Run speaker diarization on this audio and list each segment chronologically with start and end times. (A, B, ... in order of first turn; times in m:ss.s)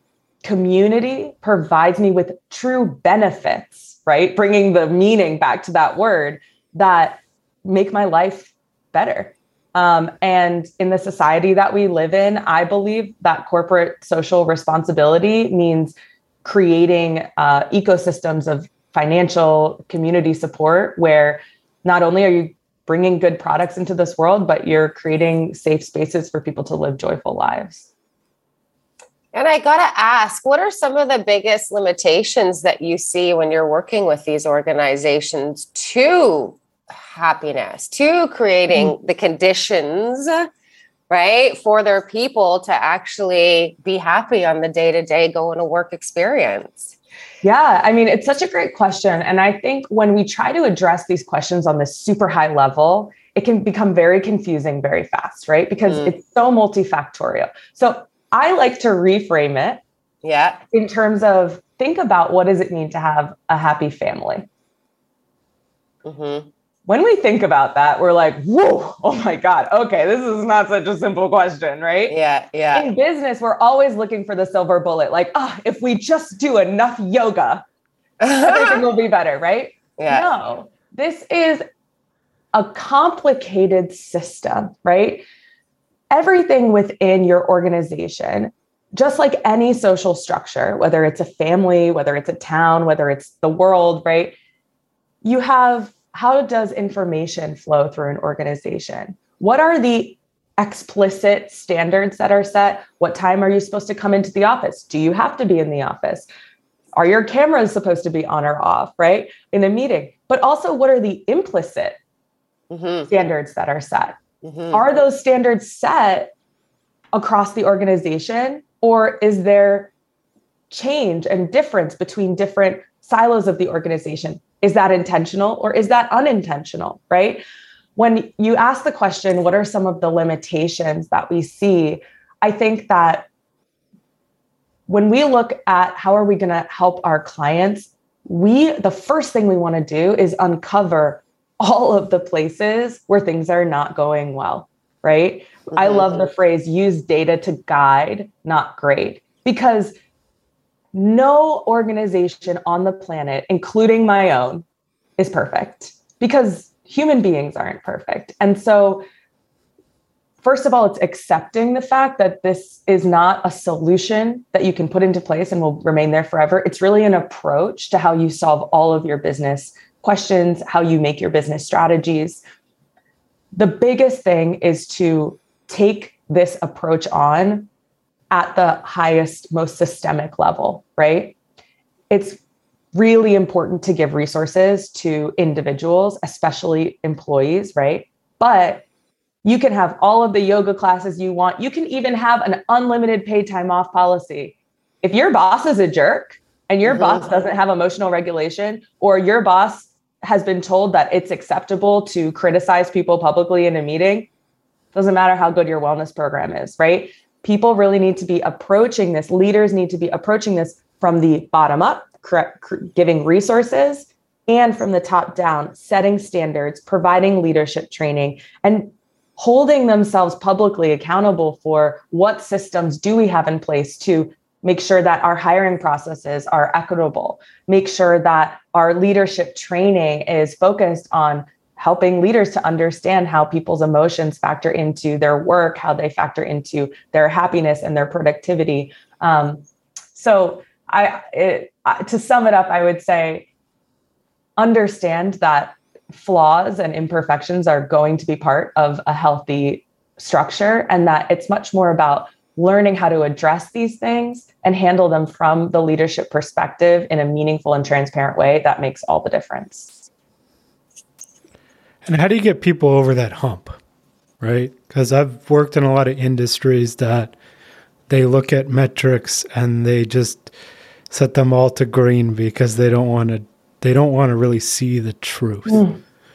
0:00.4-0:27.9 A
0:29.3-0:40.5 B
0:41.1-0:47.0 B
0:47.4-0:59.8 A
0:55.9-0:56.1 B
1:00.2-1:00.6 B
1:00.7-1:04.4 A
1:06.0-1:06.5 B
1:06.9-1:12.1 A
1:12.1-1:12.9 B
1:12.7-1:17.6 A
1:18.2-1:18.8 B
1:18.4-1:21.6 A
1:20.0-1:20.3 B
1:22.5-1:25.2 A
1:26.1-1:34.3 A
1:35.2-1:46.3 A
1:46.9-1:52.0 A
1:52.7-1:53.1 B
1:53.1-1:54.2 A
1:54.4-1:54.8 B
1:54.7-1:56.3 A
1:57.1-1:59.9 A
2:00.7-2:07.4 A
2:08.0-2:13.2 A
2:14.9-2:29.9 A
2:25.7-2:26.2 B
2:30.9-2:34.6 A
2:35.2-2:39.0 A
2:40.4-2:52.4 A
2:53.5-2:57.7 A
2:58.3-3:01.4 A
3:02.1-3:02.4 A
3:02.9-3:08.8 A
3:09.4-3:24.3 A
3:16.8-3:17.3 B
3:24.9-3:59.6 A
4:00.1-4:03.5 A
4:04.6-4:20.0 A
4:22.0-4:23.8 C
4:24.4-4:27.3 C
4:28.1-4:30.5 C
4:31.1-4:35.8 C
4:35.7-4:36.0 A